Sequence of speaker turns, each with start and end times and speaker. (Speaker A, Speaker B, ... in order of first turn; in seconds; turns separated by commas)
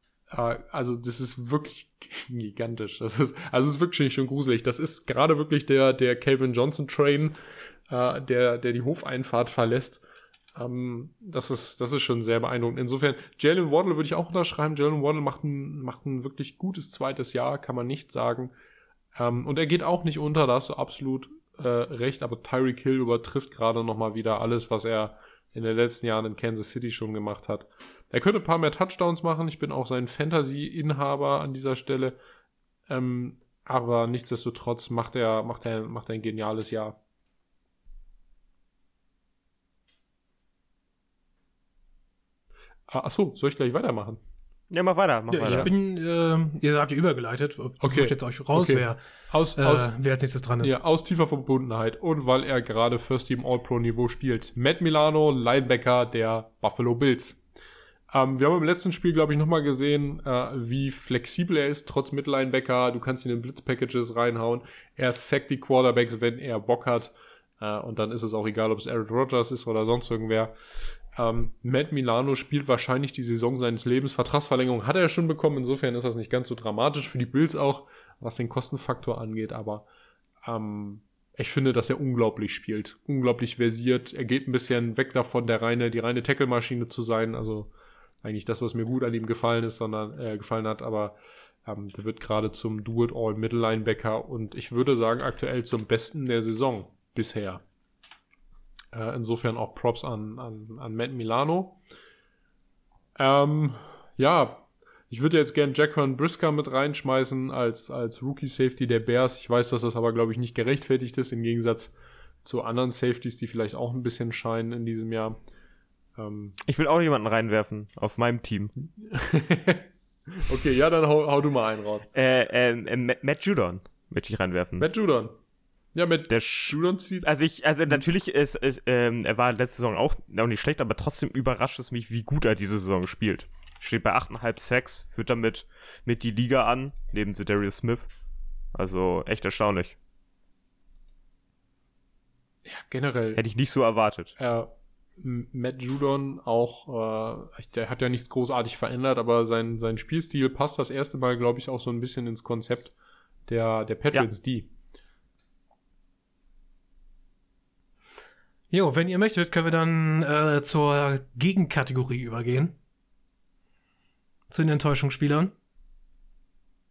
Speaker A: 0.3-7.4, Speaker A: 7.9-10.0, Speaker A: 10.6-18.5, Speaker A: 19.2-32.2, Speaker A: 32.9-37.0, Speaker A: 42.9-44.2, Speaker B: 44.7-45.7, Speaker C: 45.3-49.0, Speaker A: 47.8-49.9, Speaker C: 49.6-50.8, Speaker A: 50.6-57.4, Speaker A: 58.1-70.5, Speaker A: 71.2-79.9, Speaker A: 80.4-87.7, Speaker A: 88.2-97.6, Speaker A: 98.9-101.8, Speaker A: 103.2-115.4, Speaker A: 116.2-116.6, Speaker B: 116.7-118.7, Speaker A: 119.0-122.1, Speaker B: 122.1-124.9, Speaker A: 124.8-125.3, Speaker A: 125.9-127.3, Speaker B: 126.3-138.1, Speaker B: 138.7-140.0, Speaker A: 142.7-143.4, Speaker B: 143.3-144.3, Speaker A: 144.4-152.9, Speaker A: 153.5-154.7, Speaker C: 158.7-162.8, Speaker C: 164.5-165.5